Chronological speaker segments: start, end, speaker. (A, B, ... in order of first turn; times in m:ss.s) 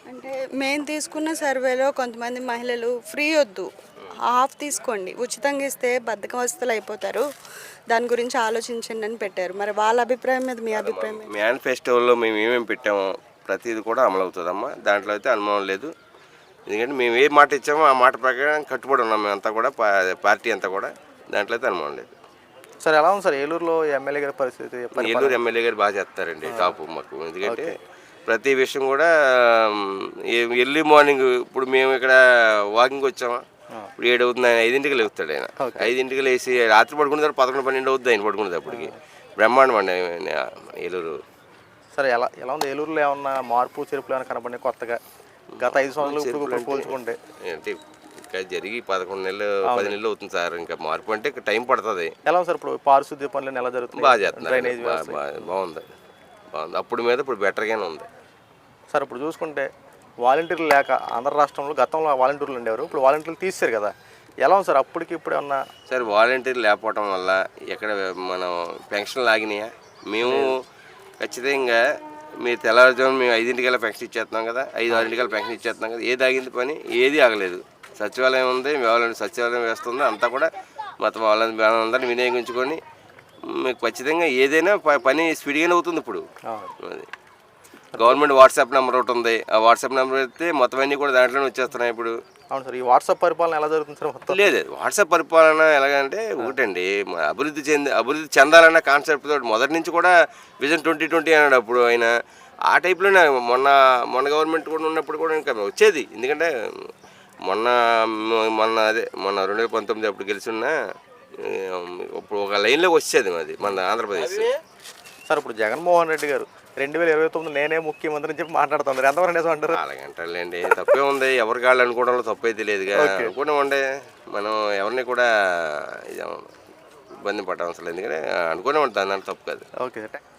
0:00.1-0:03.7 A
0:04.2-0:07.2 A
0:07.9-0:11.3 A
0:10.7-0:15.9 B
0:16.7-0:22.1 B
0:22.8-0:25.4 C
0:24.9-0:27.8 B
0:26.4-0:26.8 C
0:27.4-0:27.8 C
0:28.3-0:32.2 B
0:32.7-0:33.4 B
0:34.0-0:41.2 B
0:35.6-0:35.9 C
0:38.7-0:39.0 C
0:41.9-0:45.0 C
0:45.6-0:47.8 B
0:45.6-0:47.2 C
0:48.3-0:52.1 B
0:49.6-0:50.0 C
0:52.2-0:55.2 C
0:53.9-0:55.9 B
0:56.5-0:58.1 B
0:58.9-0:59.7 C
1:00.2-1:05.6 C
1:05.9-1:10.5 B
1:10.2-1:10.5 C
1:11.2-1:11.8 B
1:12.4-1:20.5 B
1:21.0-1:22.8 B
1:23.4-1:26.2 B
1:26.4-1:26.7 C
1:26.8-1:27.1 B
1:27.9-1:32.2 B
1:32.5-1:34.4 C
1:34.3-1:42.1 B
1:42.7-1:46.9 B
1:47.4-1:50.8 B
1:51.4-1:54.5 B
1:55.3-1:59.8 C
1:59.7-2:06.5 B
2:02.9-2:03.3 C
2:07.2-2:09.6 B
2:09.8-2:10.2 C